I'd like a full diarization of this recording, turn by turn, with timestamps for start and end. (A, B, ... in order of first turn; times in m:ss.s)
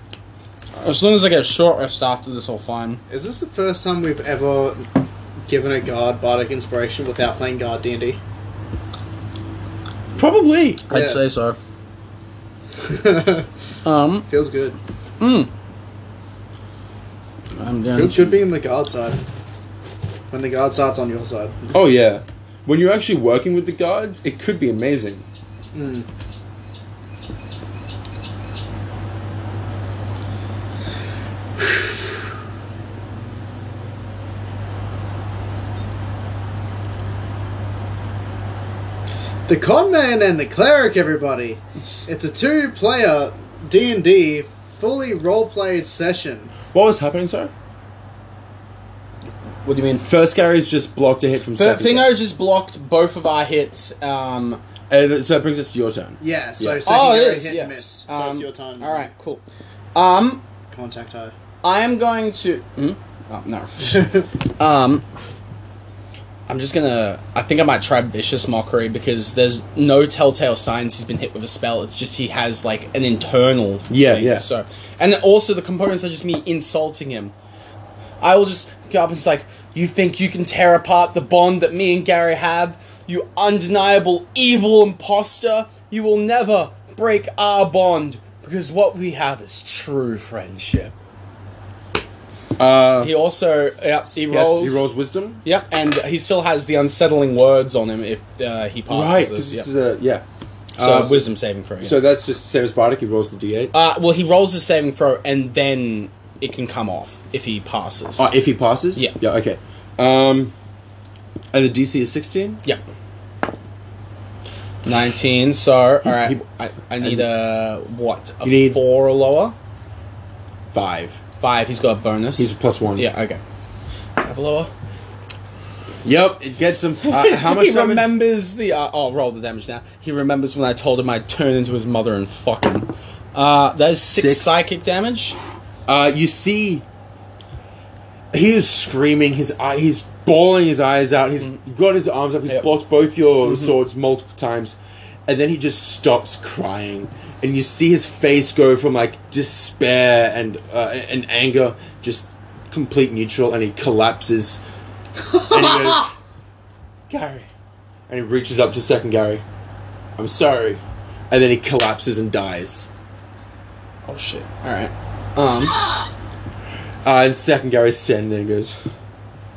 0:00.8-0:03.0 A
0:03.1-0:08.2 B
0:10.2-0:10.9 C
0:10.9-0:11.6 A
0:10.9-0:11.2 B
0:12.8-0:13.5 B
0:13.8-0:14.3 A
0:14.3-0:14.8 B
0:15.2-0:15.5 A
0:17.6-0:18.4 A
0:17.9-0:19.2 B
0:20.3-0:21.8 B
0:21.7-0:25.2 C
0:25.7-0:26.1 B
0:39.5-0:46.5 B
0:46.7-0:47.5 C
0:49.6-0:50.1 A
0:50.0-0:52.1 C
0:51.6-0:54.6 A
0:54.9-0:56.9 C
0:56.2-0:59.1 B
0:56.8-0:59.4 A
0:59.9-1:00.4 A
1:00.7-1:01.4 B
1:01.6-1:05.0 A
1:03.9-1:04.2 B
1:06.5-1:17.3 A
1:13.9-1:14.5 C
1:18.2-1:30.9 A
1:32.6-1:33.1 C
1:33.0-1:34.8 A
1:34.3-1:35.4 C
1:35.4-1:39.7 A
1:38.9-1:40.2 C
1:40.8-1:41.3 C
1:40.8-1:42.0 A
1:41.8-1:43.7 C
1:43.7-1:48.3 A
1:48.2-1:50.5 C
1:51.5-1:52.6 C
1:54.8-1:59.6 A
1:56.0-1:56.4 C
1:57.0-1:57.3 C
1:58.4-1:58.8 C
2:00.7-2:01.2 C
2:01.4-2:03.4 A
2:02.4-2:03.1 C
2:04.2-2:04.7 A
2:06.0-2:08.1 C
2:07.0-2:15.4 A
2:14.2-2:14.6 C
2:15.9-2:16.8 C
2:18.3-2:34.6 C
2:23.4-2:23.8 A
2:35.4-2:36.0 B
2:35.4-2:36.1 C
2:37.1-2:37.5 C
2:38.1-2:39.4 C
2:40.2-2:42.9 C
2:44.1-2:45.8 A
2:47.0-2:48.8 C